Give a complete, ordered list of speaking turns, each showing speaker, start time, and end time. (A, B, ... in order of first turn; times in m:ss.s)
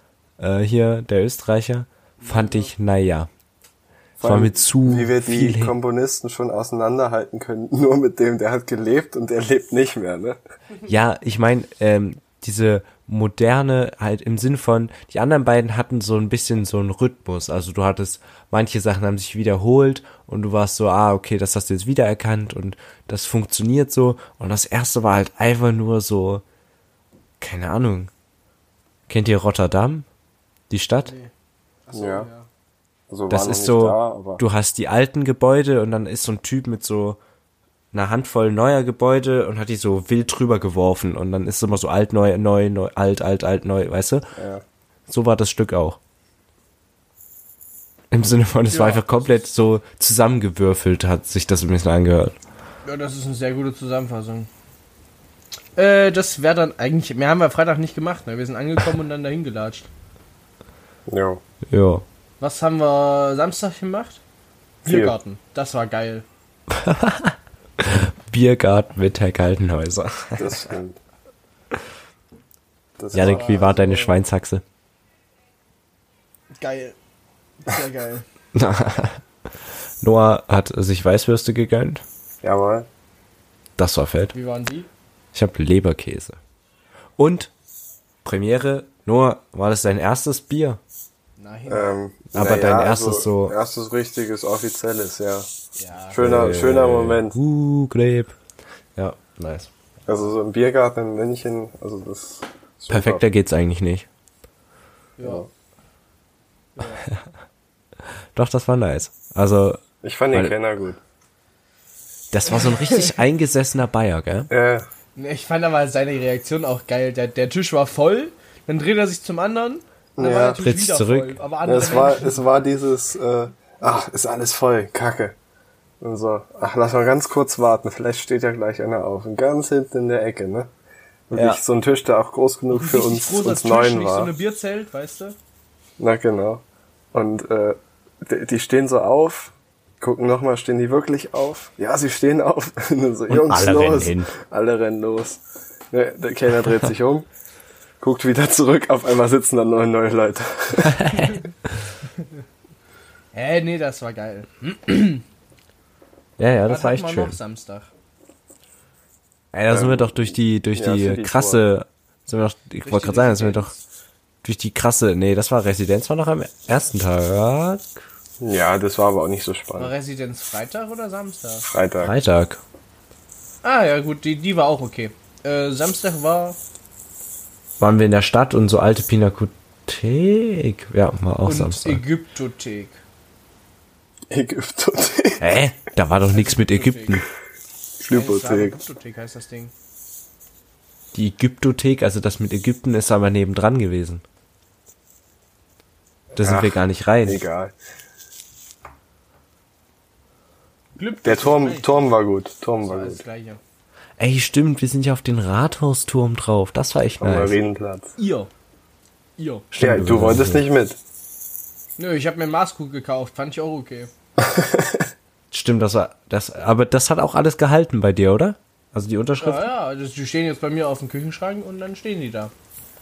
0:00.4-0:03.3 A
0:02.2-0:02.7 B
0:04.2-0:10.4 C
0:04.2-0:05.8 A
0:10.9-0:26.4 A
0:27.4-0:28.1 A
0:29.1-0:30.1 A
0:30.7-0:31.1 A
0:31.0-0:31.3 B
0:31.9-0:32.5 B
0:31.9-0:32.3 C
0:33.1-0:34.4 C
0:33.3-0:37.2 A
0:37.9-0:44.2 A
0:44.4-0:44.6 C
0:45.1-0:46.0 A
0:48.1-0:52.4 A
0:48.7-0:49.4 B
0:52.8-0:54.5 B
0:55.8-0:59.9 B
1:01.1-1:01.4 C
1:01.7-1:02.0 A
1:02.4-1:04.2 B
1:04.8-1:05.1 C
1:04.8-1:06.2 B
1:06.7-1:10.5 A
1:10.4-1:11.0 C
1:13.0-1:13.8 C
1:13.1-1:14.6 A
1:13.2-1:14.2 B
1:16.6-1:17.0 B
1:17.6-1:18.3 B
1:18.5-1:19.2 A
1:20.0-1:22.0 A
1:22.4-1:22.9 C
1:23.8-1:24.4 A
1:24.3-1:24.9 B
1:25.3-1:26.4 A
1:27.2-1:27.5 A
1:28.2-1:30.8 A
1:31.4-1:31.9 B
1:31.7-1:35.5 C
1:32.3-1:33.6 A
1:35.8-1:36.2 B
1:36.1-1:37.4 C
1:36.2-1:38.4 A
1:39.0-1:39.7 A
1:40.1-1:43.2 C
1:42.9-1:44.1 A
1:45.2-1:45.5 B
1:46.8-1:47.0 B
1:48.4-1:49.8 A
1:50.0-1:51.0 C
1:52.3-1:54.5 A
1:52.5-1:53.1 B
1:54.5-1:54.9 C
1:55.2-2:02.4 B
2:00.2-2:00.6 C
2:00.6-2:01.4 A
2:01.6-2:05.4 C
2:06.0-2:10.7 C
2:11.3-2:14.3 C
2:11.3-2:11.6 A
2:12.7-2:15.4 B
2:16.0-2:16.6 C
2:17.1-2:27.3 C
2:23.3-2:24.3 A
2:28.0-2:31.0 C
2:30.8-2:31.4 A
2:33.3-2:35.2 B
2:36.4-2:37.4 A
2:36.7-2:37.9 B
2:39.5-2:43.7 A
2:39.7-2:41.6 C
2:42.8-2:43.8 B
2:44.4-2:48.0 A
2:48.4-2:49.9 C
2:49.8-2:51.7 B
2:51.7-2:52.1 C
2:52.0-2:52.6 A
2:53.6-2:56.6 B
2:57.8-3:02.0 A
3:01.5-3:03.0 B
3:04.3-3:05.5 C
3:05.4-3:07.2 A
3:06.3-3:07.2 B
3:08.0-3:08.8 C
3:08.1-3:09.7 B
3:11.1-3:14.2 A
3:16.4-3:17.4 A
3:16.4-3:17.7 C
3:21.0-3:21.9 B
3:21.2-3:23.2 C
3:22.8-3:23.6 B
3:24.2-3:27.6 A
3:27.2-3:28.1 C
3:28.2-3:28.5 B
3:29.4-3:29.7 B
3:29.7-3:30.6 A
3:29.8-3:31.0 C
3:32.0-3:34.1 B
3:34.4-3:35.0 C
3:35.5-3:39.7 A
3:39.4-3:42.5 B